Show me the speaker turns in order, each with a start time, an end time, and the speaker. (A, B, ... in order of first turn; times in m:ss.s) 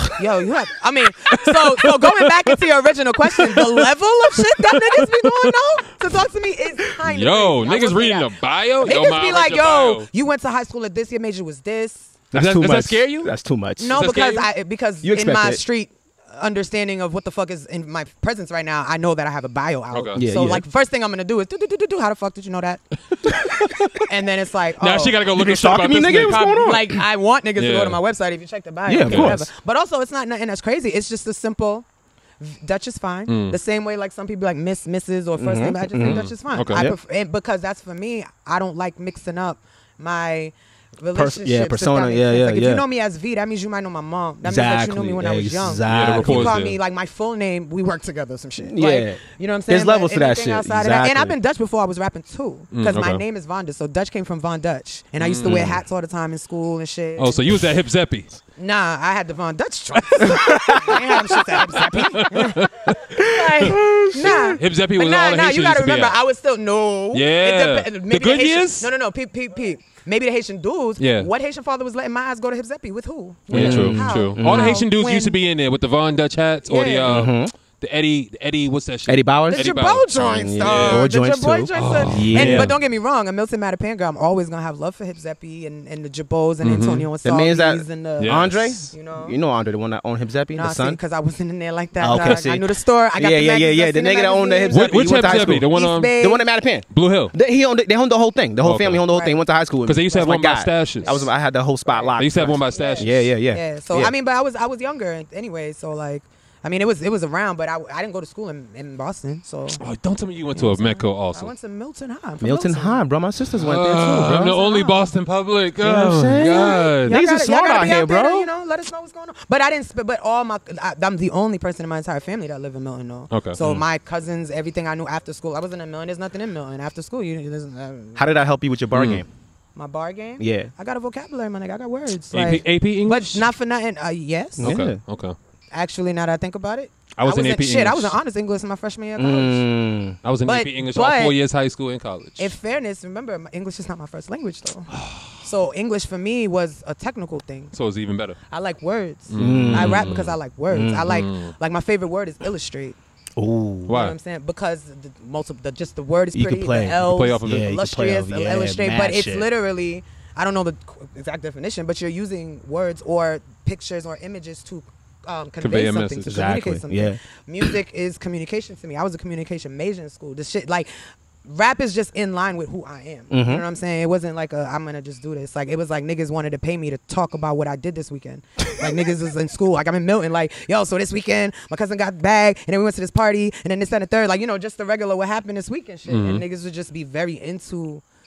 0:00.2-0:12.1 A
0:01.3-0:02.6 B
0:03.3-0:03.9 B
0:04.5-0:05.5 B
0:07.0-0:10.1 B
0:12.3-0:14.1 C
0:12.3-0:13.3 B
0:13.8-0:22.8 A
0:14.0-0:14.5 B
0:15.0-0:15.6 C
0:19.9-0:20.2 B
0:20.2-0:20.6 C
0:24.1-0:25.2 A
0:24.8-0:26.8 B
0:25.3-0:26.9 C
0:26.2-0:31.9 A
0:27.6-0:28.0 B
0:28.9-0:29.5 C
0:29.1-0:29.4 B
0:32.4-0:57.7 A
0:33.3-0:33.6 B
0:35.4-0:37.0 C
0:36.0-0:36.8 B
0:41.2-0:42.8 C
0:44.4-0:46.6 C
0:45.9-0:46.8 B
0:48.7-0:51.4 C
0:52.7-0:53.2 B
0:55.2-0:55.8 B
0:55.4-0:55.8 C
0:57.2-0:58.3 B
0:58.6-1:02.7 A
1:00.3-1:01.2 C
1:01.5-1:03.0 B
1:03.2-1:15.4 A
1:03.3-1:04.6 C
1:03.6-1:06.2 B
1:07.1-1:08.9 B
1:11.0-1:11.3 B
1:13.5-1:21.1 B
1:13.5-1:14.8 C
1:16.7-1:17.1 A
1:17.1-1:17.5 C
1:19.1-1:19.7 C
1:19.5-1:29.4 A
1:20.2-1:22.8 C
1:21.7-1:22.8 B
1:26.6-1:27.1 B
1:27.2-1:31.0 C
1:28.2-1:28.7 B
1:30.5-1:36.4 A
1:32.0-1:44.1 C
1:32.1-1:32.4 B
1:34.7-1:36.2 B
1:36.9-1:37.3 B
1:38.6-1:39.0 B
1:39.1-1:39.4 A
1:39.8-1:41.2 B
1:41.0-1:41.3 A
1:41.9-1:49.8 A
1:42.2-1:43.2 B
1:49.8-1:51.5 B
1:50.6-1:53.0 A
1:52.4-1:54.5 C
1:53.6-1:57.2 B
1:54.2-1:55.1 A
1:55.8-1:58.5 C
1:57.0-2:08.3 A
2:03.3-2:03.8 B
2:08.2-2:09.3 C
2:08.9-2:09.2 B
2:09.8-2:14.8 A
2:10.4-2:10.7 C
2:12.3-2:13.5 B
2:14.6-2:15.0 C
2:14.6-2:15.4 B
2:15.7-2:19.6 A
2:17.2-2:18.2 B
2:19.2-2:20.2 C
2:20.2-2:22.5 B
2:20.4-2:21.4 A
2:22.4-2:24.9 A
2:24.9-2:25.4 B
2:25.4-2:27.7 A
2:27.7-2:28.4 B
2:28.5-2:33.0 A
2:29.3-2:30.4 B
2:29.4-2:30.1 C
2:30.7-2:31.2 C
2:31.1-2:31.5 B
2:33.4-2:34.0 C
2:33.9-2:34.2 B
2:33.9-2:50.9 A
2:36.3-2:39.5 C
2:37.0-2:37.7 B
2:45.6-2:46.6 B
2:46.3-2:47.2 C
2:51.4-3:08.0 A
2:53.3-2:53.6 C
3:06.1-3:06.4 B